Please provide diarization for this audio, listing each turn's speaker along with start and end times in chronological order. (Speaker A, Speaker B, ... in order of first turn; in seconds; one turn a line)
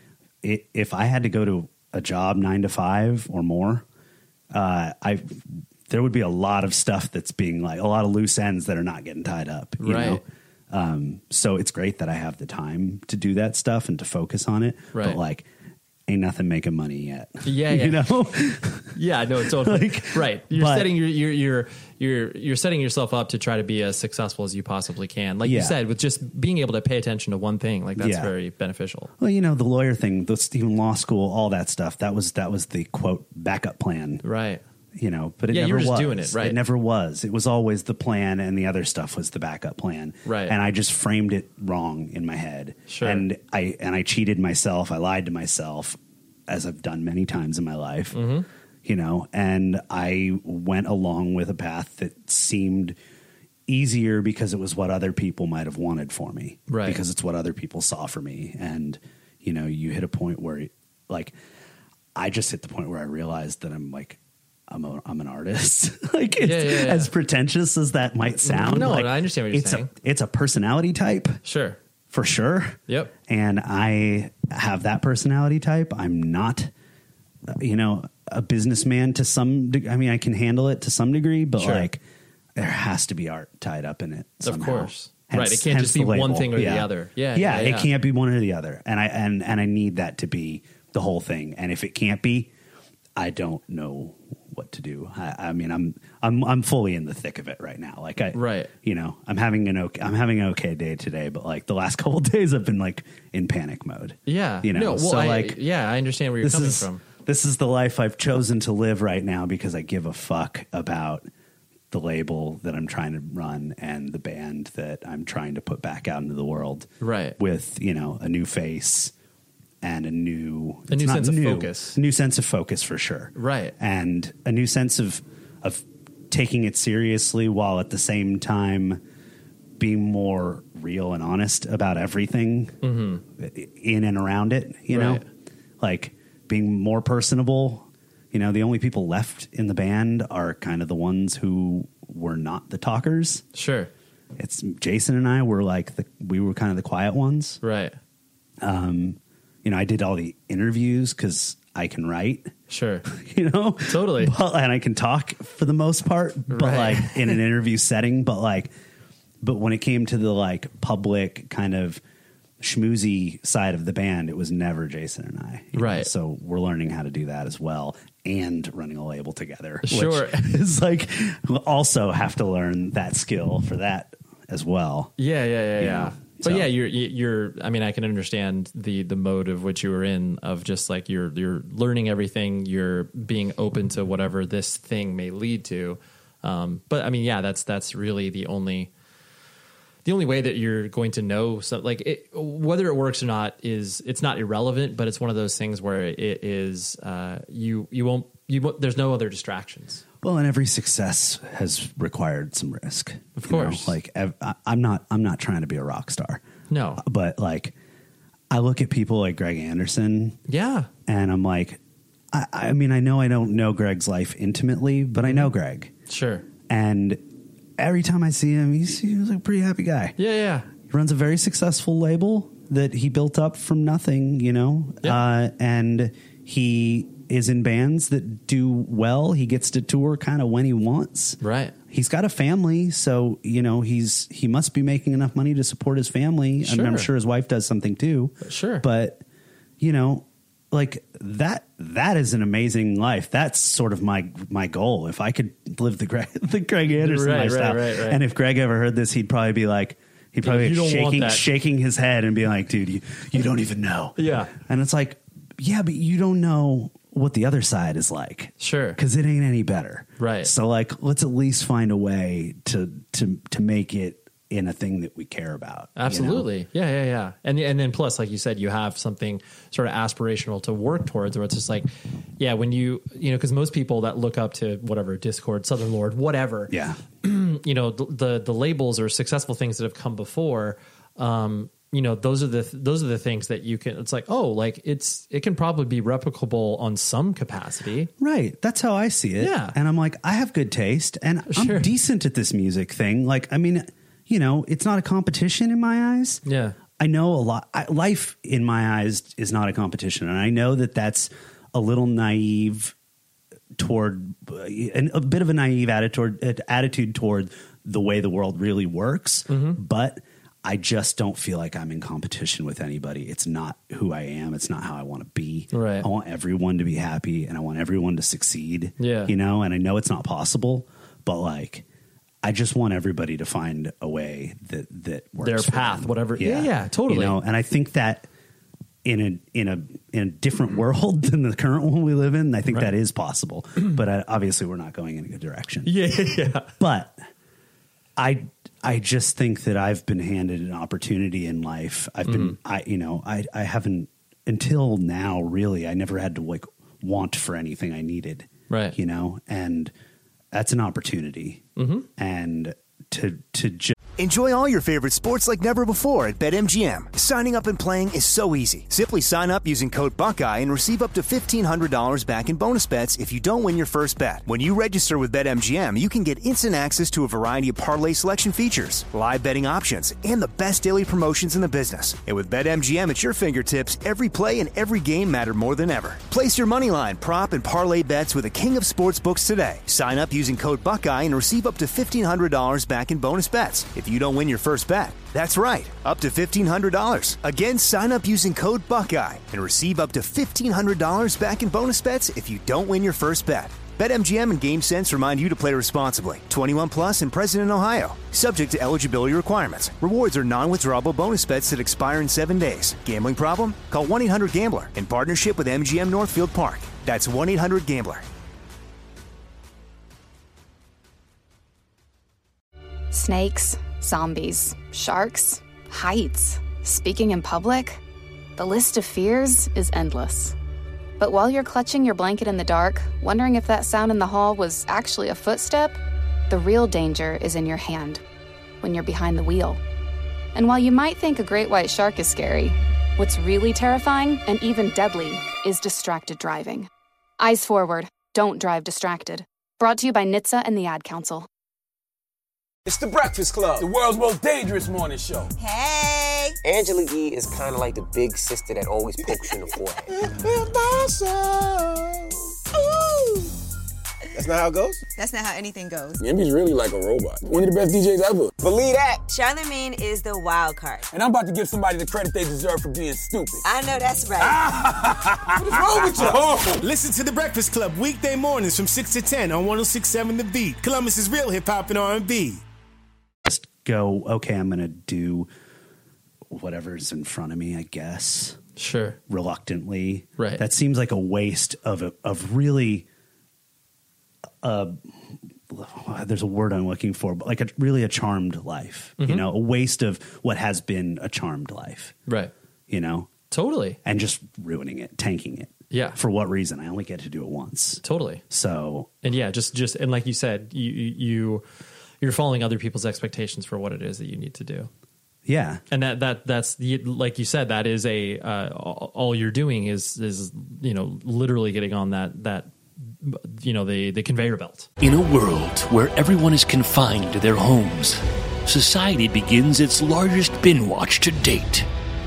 Speaker A: 0.4-3.9
Speaker A: 4.5-15.5
Speaker B: 9.8-10.2
Speaker B: 14.9-15.2
Speaker A: 16.1-19.0
Speaker B: 17.4-18.0
Speaker B: 18.9-29.1
Speaker A: 19.5-20.9
Speaker A: 25.4-25.8
Speaker A: 28.0-28.3
Speaker A: 29.2-34.2
Speaker B: 34.2-34.6
Speaker A: 35.0-48.2
Speaker B: 35.5-36.6
Speaker B: 40.2-40.6
Speaker B: 42.9-43.2
Speaker B: 48.1-48.5
Speaker A: 48.8-53.0
Speaker A: 53.7-61.3
Speaker B: 56.7-57.0
Speaker A: 62.1-71.4
Speaker B: 66.4-67.1
Speaker B: 68.4-69.9
Speaker B: 71.5-71.8
Speaker A: 72.1-76.7
Speaker B: 72.9-73.1
Speaker A: 77.5-82.0
Speaker B: 81.6-81.9
Speaker A: 82.6-92.5
Speaker B: 84.4-87.9
Speaker A: 93.2-105.6
Speaker B: 98.3-98.7
Speaker B: 104.3-107.0
Speaker A: 106.4-111.3
Speaker A: 111.9-119.1
Speaker B: 117.0-117.4
Speaker A: 119.8-129.0
Speaker B: 120.9-122.0
Speaker B: 123.4-123.7
Speaker A: 129.8-132.8
Speaker B: 132.8-133.2
Speaker A: 133.4-135.2
Speaker B: 134.9-135.2
Speaker A: 135.8-143.4
Speaker B: 143.5-143.9
Speaker A: 144.4-147.6
Speaker B: 147.6-148.0
Speaker A: 148.6-152.5
Speaker B: 152.7-153.1
Speaker A: 153.1-158.7
Speaker B: 153.9-154.3
Speaker B: 156.5-157.4
Speaker A: 159.4-162.0
Speaker A: 162.6-175.1
Speaker B: 165.7-166.1
Speaker B: 169.8-170.5
Speaker B: 175.2-188.9
Speaker A: 175.8-176.7
Speaker B: 190.1-200.0
Speaker A: 200.2-206.4
Speaker B: 203.4-203.9
Speaker B: 206.7-207.0
Speaker A: 207.0-207.8
Speaker A: 208.5-210.4
Speaker B: 210.5-210.9
Speaker A: 211.1-211.8
Speaker A: 212.3-215.9
Speaker B: 215.2-215.5
Speaker B: 216.1-216.4
Speaker A: 216.7-217.2
Speaker A: 217.8-220.2
Speaker B: 220.2-220.7
Speaker A: 220.8-231.4
Speaker B: 231.4-231.7
Speaker A: 231.9-239.2
Speaker B: 236.6-237.1
Speaker B: 238.4-238.8
Speaker A: 239.8-266.5
Speaker B: 246.9-248.2
Speaker B: 250.4-251.4
Speaker B: 254.2-254.5
Speaker B: 258.6-259.0
Speaker B: 260.2-260.5
Speaker B: 266.0-288.1
Speaker A: 276.7-277.0
Speaker A: 288.2-296.4
Speaker B: 289.4-289.8
Speaker B: 291.5-291.9
Speaker B: 296.4-296.8
Speaker A: 297.0-302.9
Speaker A: 303.8-321.9
Speaker B: 309.5-309.8
Speaker B: 315.7-316.1
Speaker B: 319.0-319.3
Speaker A: 322.4-328.3
Speaker B: 325.4-327.4
Speaker A: 329.0-335.9
Speaker B: 335.9-336.7
Speaker A: 336.8-337.2
Speaker A: 338.2-349.9
Speaker B: 342.3-342.6
Speaker B: 348.7-349.0
Speaker A: 350.5-351.7
Speaker B: 351.8-352.1
Speaker A: 352.2-353.9
Speaker C: 354.2-408.2
Speaker D: 413.1-418.0
Speaker D: 418.6-420.6
Speaker D: 421.2-426.0
Speaker D: 426.5-428.2
Speaker D: 428.8-429.8
Speaker D: 430.6-436.9
Speaker D: 437.4-441.5
Speaker E: 442.9-445.5
Speaker F: 445.6-446.6
Speaker G: 446.6-450.1
Speaker E: 450.2-452.3
Speaker F: 452.7-453.5
Speaker E: 454.4-455.0
Speaker F: 455.1-456.2
Speaker E: 456.2-459.2
Speaker F: 459.3-461.1
Speaker E: 461.1-463.6
Speaker F: 463.6-464.6
Speaker E: 464.4-466.8
Speaker H: 466.8-472.6
Speaker A: 473.5-475.5
Speaker A: 476.5-478.6
Speaker B: 478.8-479.2
Speaker A: 479.3-483.1
Speaker B: 480.4-480.6
Speaker A: 484.6-492.1
Speaker B: 489.2-489.5
Speaker B: 492.3-492.5
Speaker A: 492.9-493.3
Speaker B: 493.5-494.0
Speaker A: 494.0-499.2
Speaker B: 495.9-496.2
Speaker B: 498.0-498.4
Speaker B: 499.2-501.6
Speaker B: 502.2-504.9
Speaker A: 505.4-505.8
Speaker B: 505.9-514.9
Speaker I: 515.0-521.9